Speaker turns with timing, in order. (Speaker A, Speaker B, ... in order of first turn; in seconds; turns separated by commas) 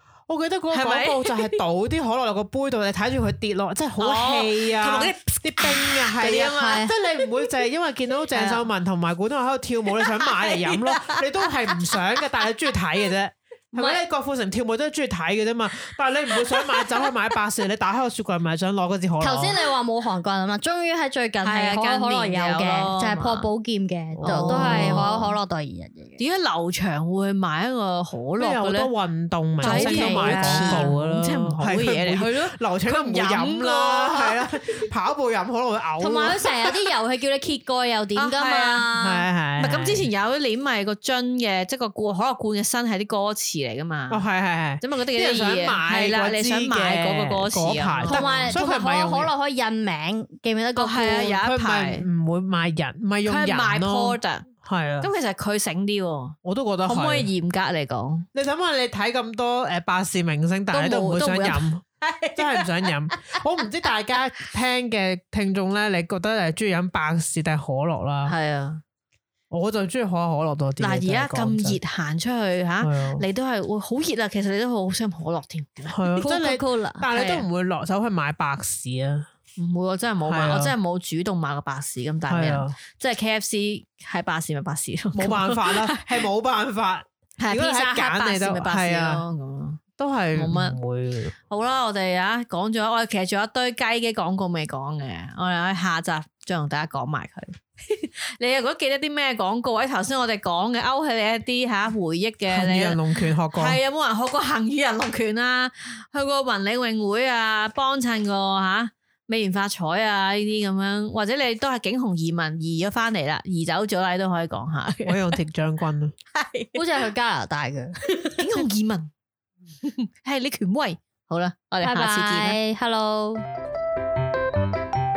Speaker A: 0.3-19.6, Speaker B: 0.7-1.6, Speaker B: 4.0-7.5, Speaker C: 6.6-6.9, Speaker B: 8.3-8.6, Speaker B: 9.9-12.2, Speaker C: 13.8-14.0, Speaker B: 16.5-16.9, Speaker C: 19.2-26.2, Speaker B: 21.4-23.5, Speaker A: 24.1-25.1, Speaker B: 24.2-25.3, Speaker B: 26.2-28.9, Speaker A: 28.4-36.4, Speaker B: 29.6-34.9, Speaker C: 29.6-30.9, Speaker C: 36.0-39.3, Speaker B: 38.2-38.9, Speaker A: 39.0-40.1, Speaker B: 39.6-44.2, Speaker A: 44.1-49.3, Speaker B: 44.8-48.5, Speaker C: 48.0-51.4, Speaker B: 50.8-52.1, Speaker A: 51.4-55.1, Speaker B: 53.3-58.3, Speaker A: 56.4-57.3, Speaker A: 58.3-61.8, Speaker B: 60.7-63.4, Speaker A: 62.4-68.3, Speaker B: 68.3-68.8, Speaker A: 69.5-71.8, Speaker B: 70.8-76.3, Speaker A: 72.8-73.2, Speaker A: 75.9-79.3, Speaker C: 76.2-77.1, Speaker B: 77.1-77.5, Speaker B: 79.6-86.3, Speaker A: 80.2-80.8, Speaker A: 82.3-82.8, Speaker A: 85.1-89.2, Speaker B: 87.4-89.8, Speaker A: 90.0-91.3, Speaker B: 90.3-90.8, Speaker B: 91.5-115.4, Speaker A: 102.5-103.8, Speaker A: 115.0-116.1, Speaker B: 116.3-116.9, Speaker C: 116.8-118.4, Speaker B: 118.3-119.1, Speaker B: 119.8-122.6, Speaker C: 121.8-123.5